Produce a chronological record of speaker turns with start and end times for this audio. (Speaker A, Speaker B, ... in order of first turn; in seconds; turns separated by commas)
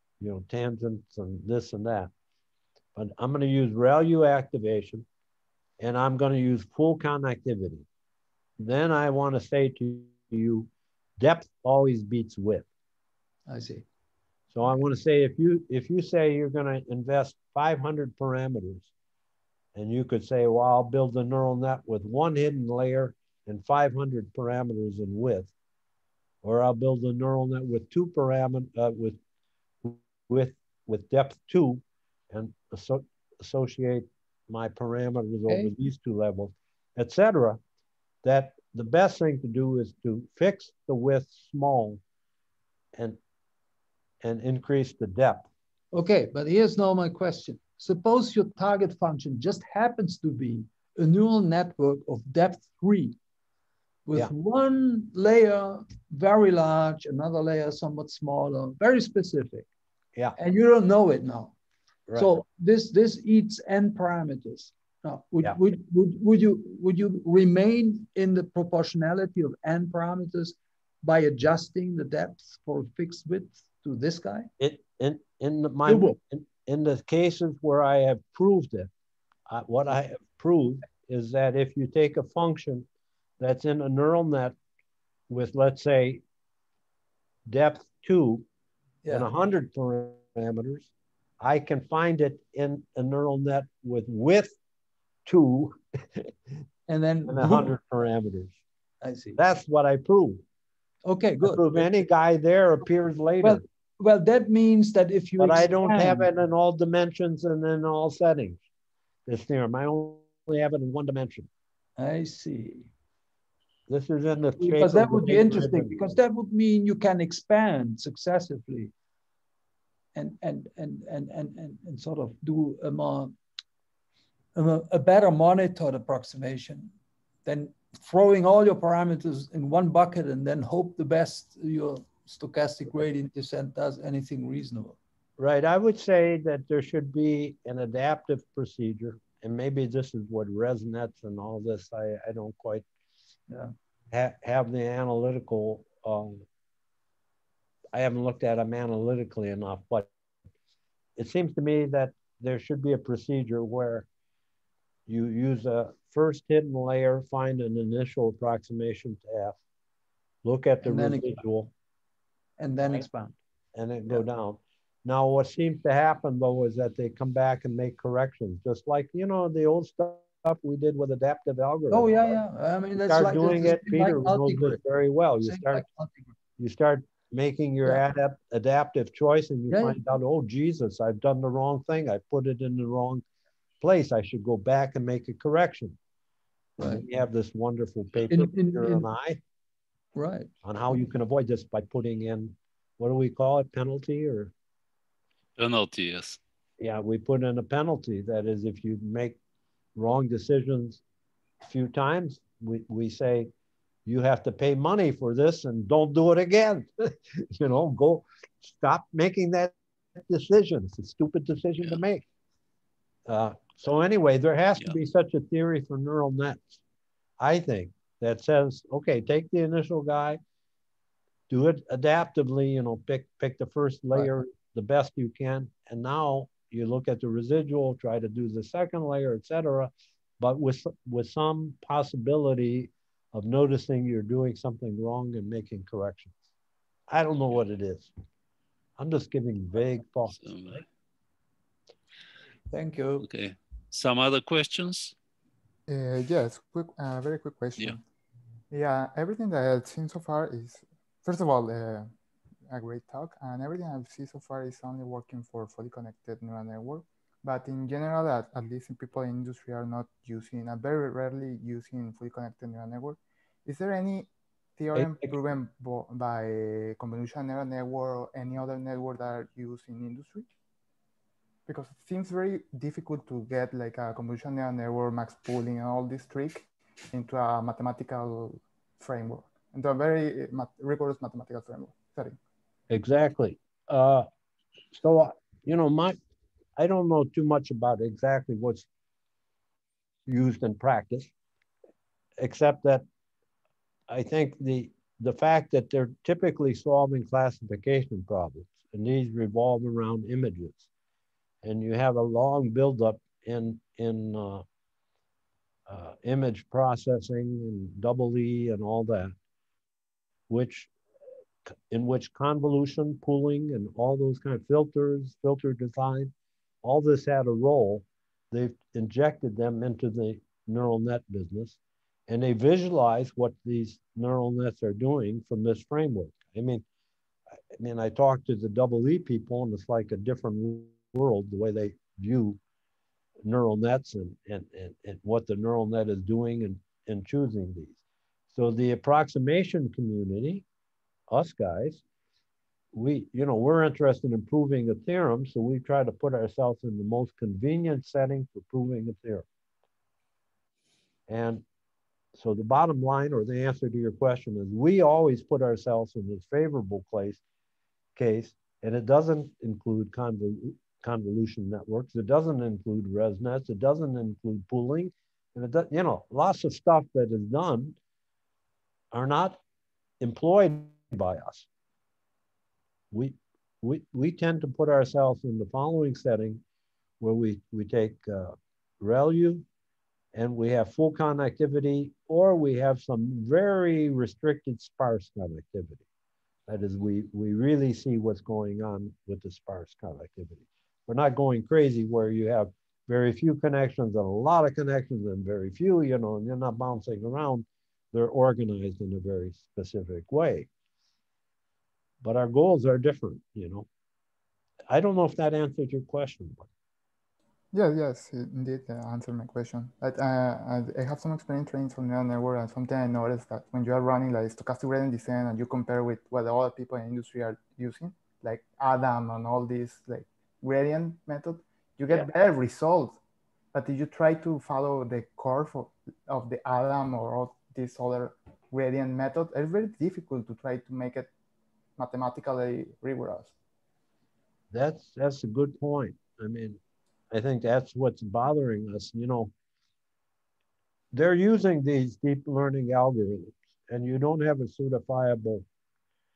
Speaker A: 0.2-2.1, Speaker A: 3.0-5.1, Speaker A: 5.8-7.8, Speaker A: 8.6-12.6, Speaker B: 13.5-13.8, Speaker A: 14.5-18.9, Speaker A: 19.7-25.5, Speaker A: 26.4-29.2, Speaker A: 29.8-37.6, Speaker A: 38.2-42.0, Speaker A: 44.2-45.5, Speaker B: 45.9-53.1, Speaker B: 54.1-59.7, Speaker B: 60.4-61.5, Speaker B: 62.1-74.5, Speaker A: 74.6-78.9, Speaker B: 75.8-76.2, Speaker A: 79.5-82.8, Speaker A: 83.4-84.5, Speaker A: 85.3-86.2, Speaker A: 87.5-88.5, Speaker A: 89.1-90.9, Speaker A: 91.4-94.6, Speaker A: 95.3-96.3, Speaker B: 96.9-97.7, Speaker A: 97.3-98.6, Speaker B: 99.0-99.4, Speaker A: 99.3-100.4, Speaker B: 101.0-101.8, Speaker A: 101.4-103.6, Speaker B: 103.4-106.3, Speaker A: 105.4-108.6, Speaker A: 109.3-111.5, Speaker B: 112.0-112.9, Speaker A: 113.9-116.2, Speaker B: 114.6-118.9, Speaker B: 120.1-123.3, Speaker B: 124.5-126.9, Speaker B: 127.4-135.0, Speaker A: 135.4-142.8, Speaker A: 144.1-146.4, Speaker A: 147.9-150.1, Speaker A: 151.2-154.1, Speaker A: 155.1-159.6, Speaker A: 160.4-161.7, Speaker B: 160.8-161.4, Speaker B: 162.6-163.4, Speaker A: 163.7-172.4, Speaker B: 171.9-174.8, Speaker A: 173.1-175.8, Speaker B: 175.4-176.3, Speaker A: 176.6-183.2, Speaker B: 179.7-180.0, Speaker A: 183.8-186.0, Speaker B: 186.8-187.1, Speaker A: 186.8-189.4, Speaker B: 188.3-189.1, Speaker B: 190.1-190.5, Speaker A: 190.6-194.5, Speaker C: 195.6-196.4, Speaker A: 196.8-199.4, Speaker A: 199.9-201.0, Speaker A: 201.6-203.5, Speaker A: 204.1-206.9, Speaker A: 207.5-212.2, Speaker A: 213.3-216.8, Speaker A: 217.4-220.4, Speaker A: 221.5-236.3, Speaker A: 237.1-238.1, Speaker A: 239.0-240.8, Speaker C: 240.4-240.8, Speaker B: 242.7-243.3, Speaker C: 243.2-245.1, Speaker D: 245.9-248.0, Speaker D: 248.7-252.1, Speaker D: 252.7-270.5, Speaker A: 264.9-265.3, Speaker D: 271.6-282.4, Speaker A: 282.9-284.3, Speaker A: 284.9-286.2, Speaker A: 286.8-288.9, Speaker A: 290.3-291.3, Speaker A: 292.4-293.0, Speaker A: 294.1-300.9, Speaker A: 301.6-304.6, Speaker A: 305.9-309.3, Speaker A: 310.5-310.9, Speaker A: 311.6-316.3, Speaker A: 316.8-321.8, Speaker A: 322.3-326.8, Speaker A: 327.8-332.6, Speaker A: 333.4-338.0, Speaker A: 338.5-340.6, Speaker A: 341.3-342.0, Speaker A: 342.9-349.4, Speaker A: 351.3-351.6, Speaker A: 352.4-357.4, Speaker A: 358.1-368.0, Speaker A: 369.1-369.6, Speaker A: 370.2-371.7, Speaker A: 373.1-376.6, Speaker A: 377.2-379.6, Speaker A: 380.3-386.0, Speaker A: 386.7-400.7, Speaker A: 402.2-403.9, Speaker A: 404.9-406.7, Speaker D: 407.7-423.2, Speaker D: 423.7-431.3, Speaker D: 432.0-433.5, Speaker A: 434.7-436.8, Speaker A: 437.3-439.5, Speaker A: 441.1-445.6